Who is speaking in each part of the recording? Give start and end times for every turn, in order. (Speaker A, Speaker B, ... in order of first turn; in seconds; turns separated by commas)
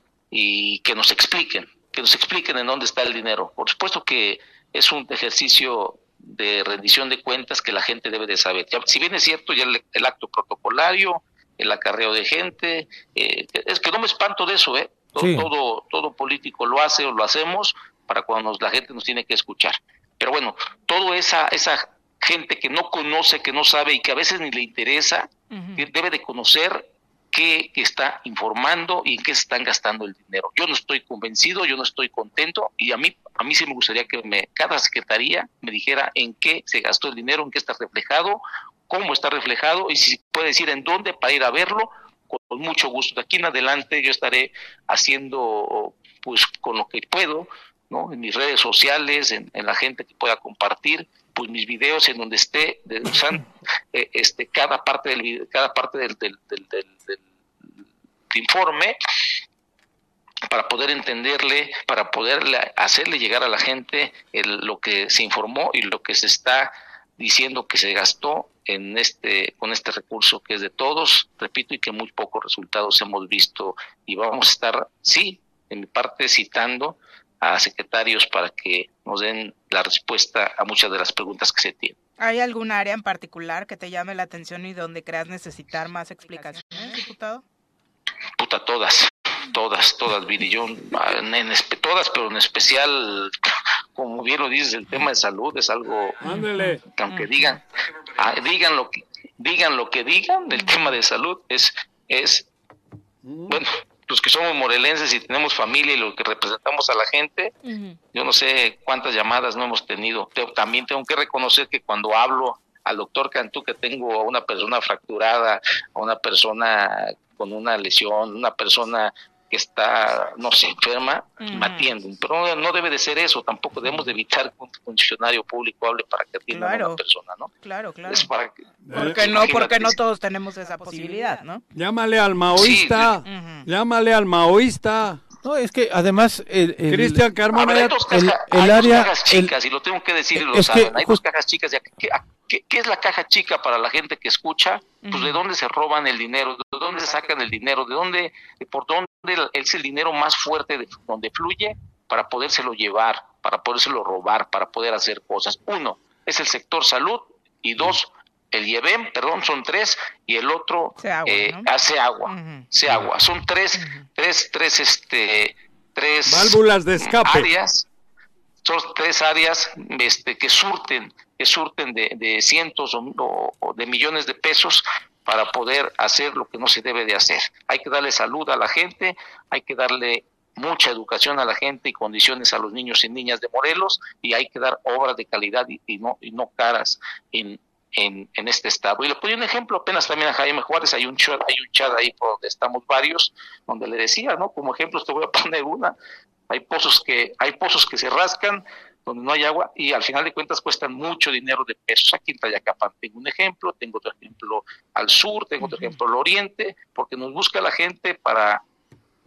Speaker A: 0.3-57.2, Speaker B: 15.2-15.5, Speaker C: 25.5-25.8, Speaker A: 58.3-59.0, Speaker A: 60.5-81.9, Speaker C: 82.2-87.4, Speaker A: 88.4-93.3, Speaker A: 94.0-96.2, Speaker D: 96.2-96.8, Speaker C: 96.4-97.2, Speaker A: 96.9-97.6, Speaker A: 98.1-102.5, Speaker D: 103.2-103.6, Speaker A: 103.5-107.5, Speaker C: 107.6-108.0, Speaker A: 108.1-127.5, Speaker C: 121.4-121.9, Speaker C: 126.5-127.0, Speaker C: 127.6-128.3, Speaker A: 128.1-130.0, Speaker D: 128.8-129.3, Speaker C: 128.9-131.6, Speaker D: 131.7-135.2, Speaker A: 132.5-133.2, Speaker C: 133.2-133.7, Speaker B: 135.4-137.2, Speaker D: 136.9-138.0, Speaker A: 137.5-167.9, Speaker B: 138.1-139.5, Speaker B: 140.3-141.2, Speaker C: 145.0-145.4, Speaker C: 161.0-161.7, Speaker C: 162.2-162.7, Speaker C: 163.8-164.0, Speaker D: 166.3-167.5, Speaker A: 168.6-195.9, Speaker A: 196.5-208.6